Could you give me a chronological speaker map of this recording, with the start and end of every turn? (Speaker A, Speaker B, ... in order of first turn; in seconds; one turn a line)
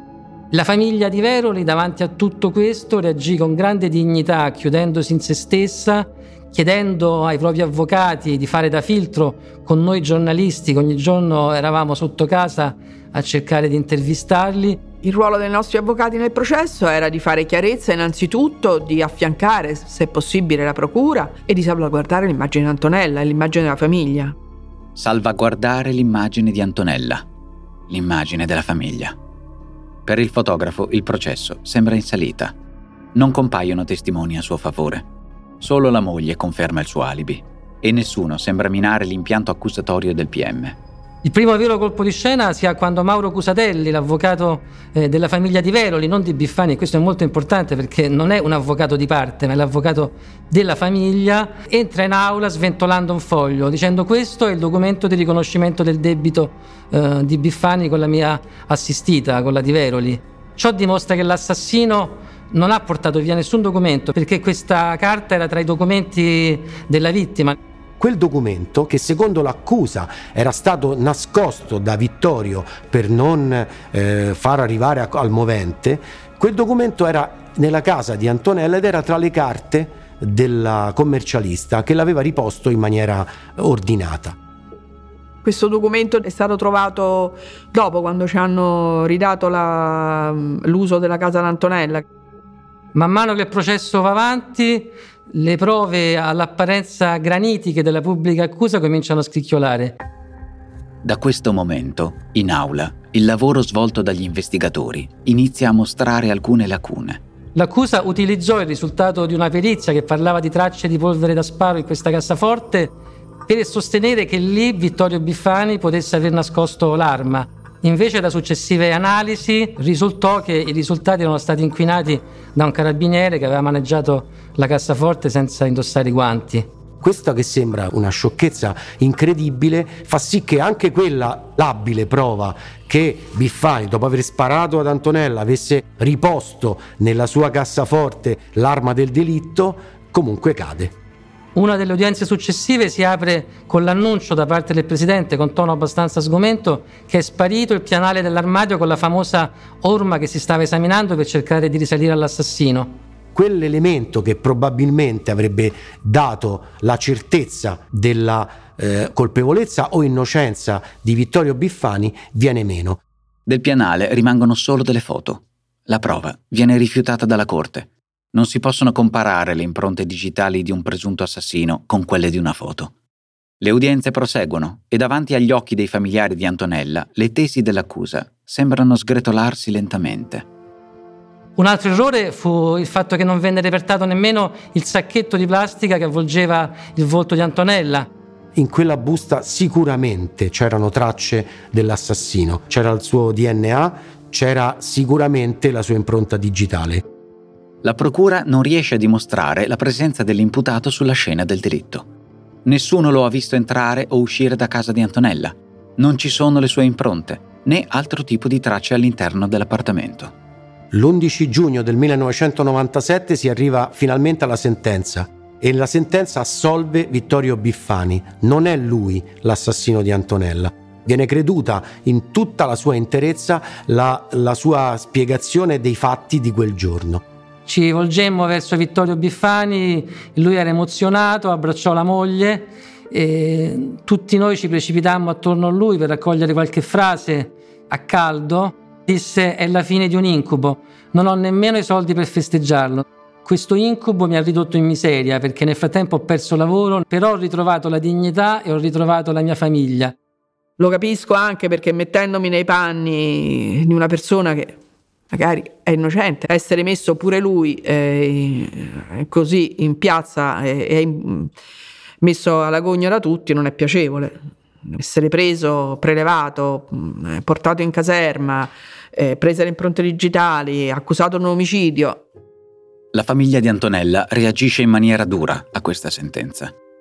Speaker A: 0.5-14.8
Speaker B: 15.0-24.4
Speaker C: 25.0-27.3
Speaker C: 27.9-29.2
Speaker C: 30.1-32.5
Speaker C: 33.1-35.0
Speaker C: 35.6-40.8
Speaker A: 41.2-67.6
Speaker D: 68.0-84.4
Speaker B: 85.4-92.0
Speaker A: 93.0-100.0
Speaker C: 101.0-107.2
Speaker A: 107.5-112.9
Speaker A: 113.5-126.7
Speaker D: 127.0-140.9
Speaker A: 141.6-152.9
Speaker D: 153.3-163.0
Speaker C: 163.5-172.9
Speaker C: 173.6-180.4
Speaker A: 181.6-188.1
Speaker D: 188.6-197.0
Speaker C: 197.8-202.1
Speaker C: 202.7-210.3
Speaker D: 210.9-227.2
Speaker A: 227.7-250.2
Speaker B: 250.8-254.8
Speaker B: 255.3-261.5
Speaker B: 262.2-272.3
Speaker C: 273.1-276.7